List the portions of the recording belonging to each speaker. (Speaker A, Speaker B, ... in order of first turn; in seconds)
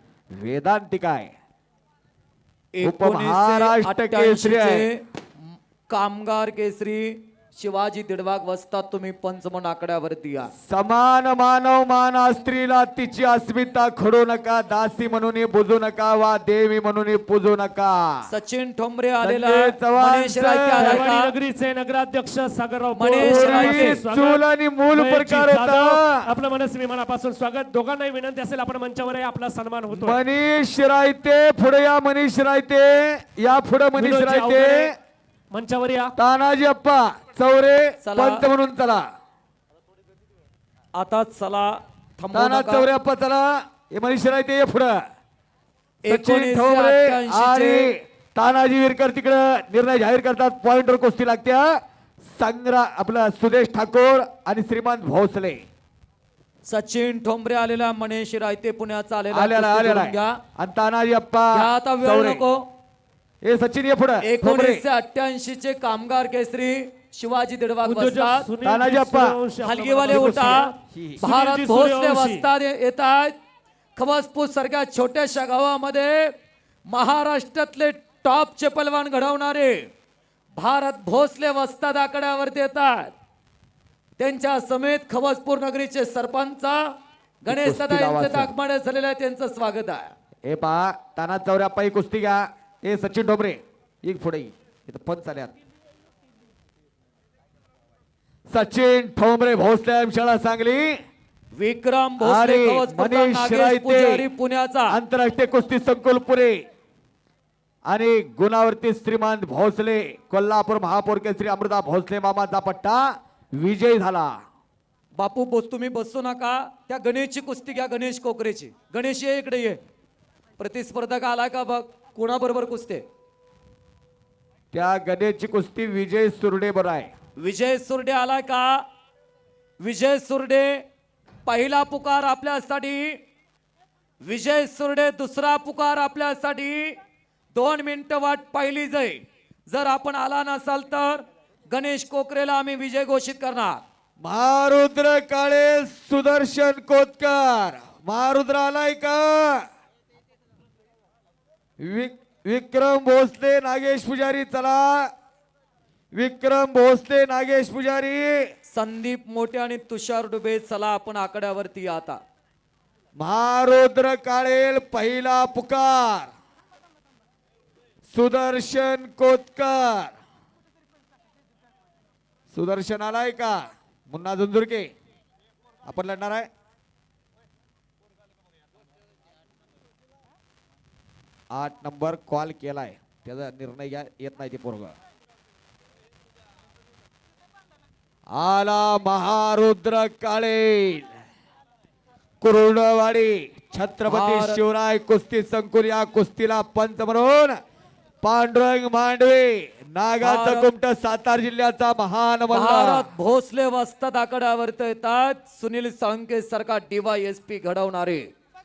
Speaker A: 0.4-1.3, 2.8-4.8, 10.6-18.0, 19.2-21.1, 23.2-26.1, 29.9-34.9, 36.2-39.0, 42.3-45.0, 46.1-51.7, 52.3-55.6, 59.3-62.4, 63.4-64.8, 68.6-69.3, 70.1-71.2, 87.5-88.5, 90.4-95.5, 98.5-100.9, 102.2-104.2, 104.9-106.6, 107.9-114.3, 124.7-127.1, 144.2-149.6, 151.8-155.1, 156.1-158.4, 163.2-166.3, 168.1-170.1, 172.5-173.6, 174.1-174.9, 175.8-176.5, 181.5-184.9, 188.3-191.1, 192.4-197.6, 198.2-203.0
Speaker B: 2.7-10.5, 18.3-21.3, 22.9-24.0, 38.0-38.4, 41.0-42.9, 46.0-47.9, 56.7-60.4, 61.5-62.6, 64.2-68.5, 69.6-70.7, 71.2-73.3, 74.0-76.3, 76.9-79.8, 80.5-83.1, 84.2-90.1, 101.5-104.9, 115.2-119.8, 120.6-123.0, 127.4-128.8, 129.8-130.8, 131.4-133.2, 134.2-137.0, 137.5-143.8, 158.7-162.2, 194.1-194.6, 200.2-200.7, 202.5-208.2
Speaker C: 20.7-30.2, 34.0-34.9, 35.5-36.1, 67.8-72.5